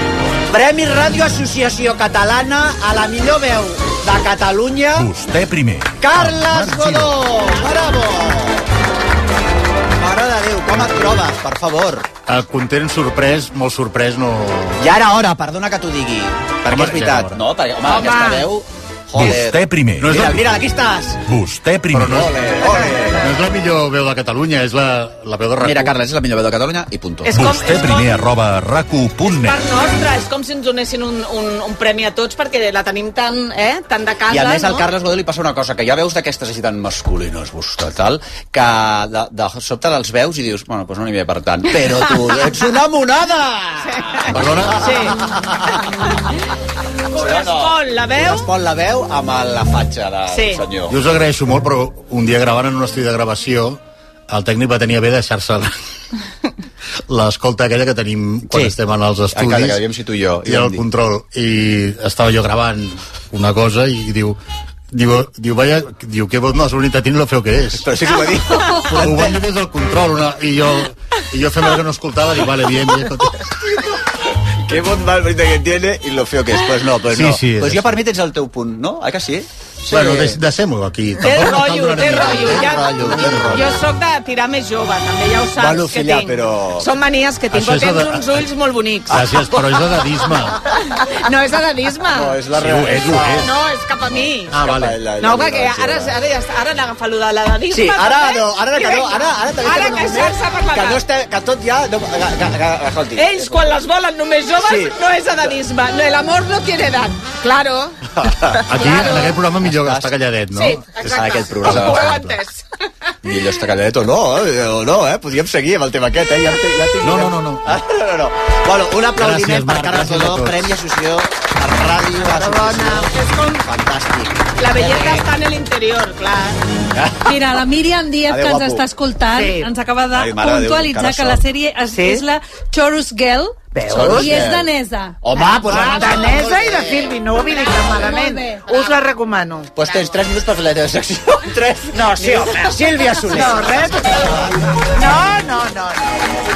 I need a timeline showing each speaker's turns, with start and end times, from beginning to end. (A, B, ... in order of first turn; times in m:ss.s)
0:00.5-0:05.1 A
0:05.0-0:07.2 B
0:06.0-0:08.7 A
0:10.0-0:12.1 A
0:12.3-0:14.8 C
0:14.8-0:21.2 A
0:16.7-0:17.4 C
0:17.9-0:18.3 D
0:18.0-0:18.3 E
0:19.2-0:20.6 C
0:19.2-0:20.2 B
0:21.2-0:22.3 B
0:21.9-0:22.5 C
0:22.0-0:23.2 A
0:22.6-0:23.1 E
0:23.1-0:25.9 C
0:25.6-0:27.4 A
0:27.2-0:28.1 E
0:27.3-0:29.6 B
0:29.3-0:34.9 D
0:34.3-0:46.1 A
0:43.9-0:45.2 D
0:44.3-0:45.1 C
0:45.7-0:46.4 D
0:47.1-0:51.0 A
0:47.1-0:48.5 D
0:50.3-0:50.6 D
0:50.9-0:55.7 C
0:57.1-0:59.8 C
0:58.5-0:58.8 A
0:59.3-1:00.8 A
1:00.4-1:04.4 C
1:04.9-1:07.9 C
1:07.8-1:09.4 A
1:08.7-1:13.5 C
1:14.6-1:20.4 A
1:17.1-1:18.0 C
1:19.9-1:23.8 C
1:21.2-1:29.7 D
1:23.0-1:23.7 A
1:25.6-1:26.9 A
1:27.5-1:28.3 C
1:29.1-1:30.6 C
1:30.9-1:32.4 D
1:32.1-1:33.5 A
1:32.6-1:33.5 C
1:33.4-1:34.6 D
1:34.1-1:36.1 A
1:34.5-1:35.0 C
1:35.2-1:41.0 D
1:37.7-1:43.7 A
1:43.2-1:48.0 D
1:44.6-1:44.9 A
1:48.1-1:50.1 A
1:48.6-1:52.4 C
1:48.7-1:49.4 D
1:50.5-1:52.6 D
1:51.1-1:52.1 A
1:53.2-2:05.2 A
1:57.0-1:57.8 C
1:59.1-2:00.7 C
2:02.2-2:03.1 E
2:04.6-2:06.6 D
2:06.9-2:07.4 A
2:07.2-2:16.0 F
2:08.3-2:08.8 A
2:09.3-2:09.7 E
2:10.1-2:11.4 A
2:11.9-2:12.2 E
2:13.7-2:14.5 E
2:13.9-2:14.7 A
2:15.2-2:17.1 A
2:15.7-2:19.7 E
2:17.8-2:18.6 F
2:18.7-2:19.0 D
2:19.7-2:24.7 A
2:19.8-2:20.1 D
2:21.9-2:26.2 E